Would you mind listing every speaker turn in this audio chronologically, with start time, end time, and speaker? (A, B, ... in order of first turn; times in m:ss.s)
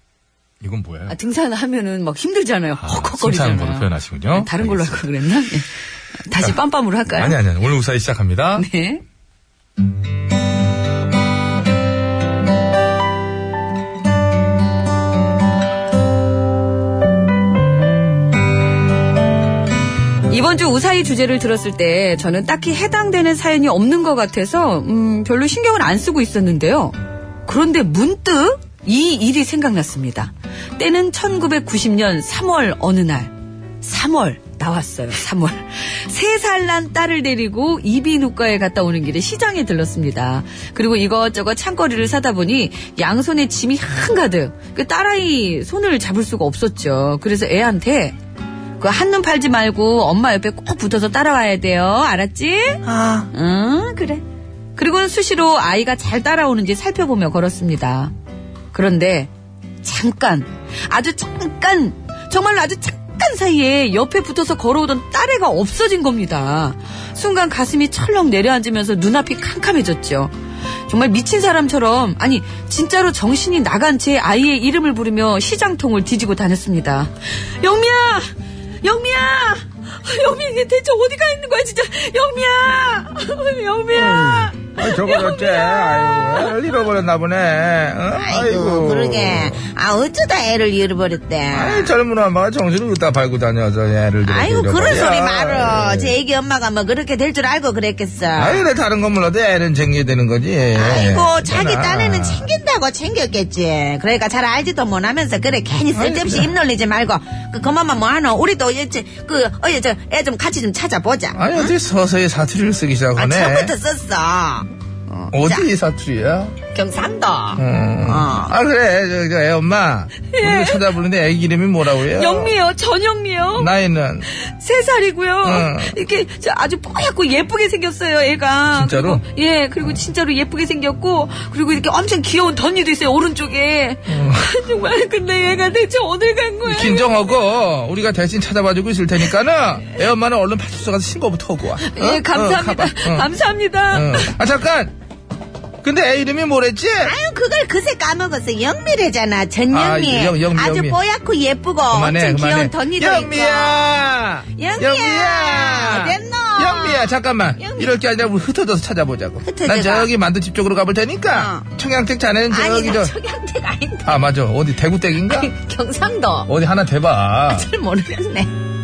0:00.6-0:01.2 A
0:01.1-0:05.7 B
0:02.8-0:05.1 A
0:06.2-0:07.4 B
0:07.1-0:08.7 A
0:08.6-0:09.0 B
0:20.3-0:48.2 B
0:48.8-0:54.2 B
0:52.9-0:53.3 C
0:54.8-0:58.1 B
0:58.7-0:59.3 B
0:59.8-1:10.3 B
1:10.9-1:26.6 B
1:23.9-1:29.6 D
1:28.2-1:31.9 C
1:31.5-1:36.1 D
1:34.2-1:38.6 C
1:38.4-1:42.5 D
1:40.7-1:51.7 C
1:45.9-1:46.5 D
1:51.3-1:53.7 D
1:53.2-1:55.6 C
1:55.3-1:56.6 D
1:56.7-1:58.5 C
1:57.6-2:02.5 D
2:00.3-2:00.8 B
2:02.0-2:03.7 B
2:03.6-2:04.2 D
2:04.3-2:17.1 B
2:05.4-2:05.9 D
2:16.7-2:23.3 D
2:21.8-2:24.4 B
2:23.9-2:24.9 D
2:25.8-2:27.1 D
2:27.0-2:34.0 C
2:29.7-2:31.0 D
2:31.9-2:43.1 D
2:34.5-2:37.9 C
2:39.4-2:40.1 C
2:41.3-2:41.7 C
2:42.5-2:44.2 C
2:44.0-2:45.5 D
2:45.3-2:46.5 C
2:46.5-2:47.7 D
2:47.5-2:48.5 C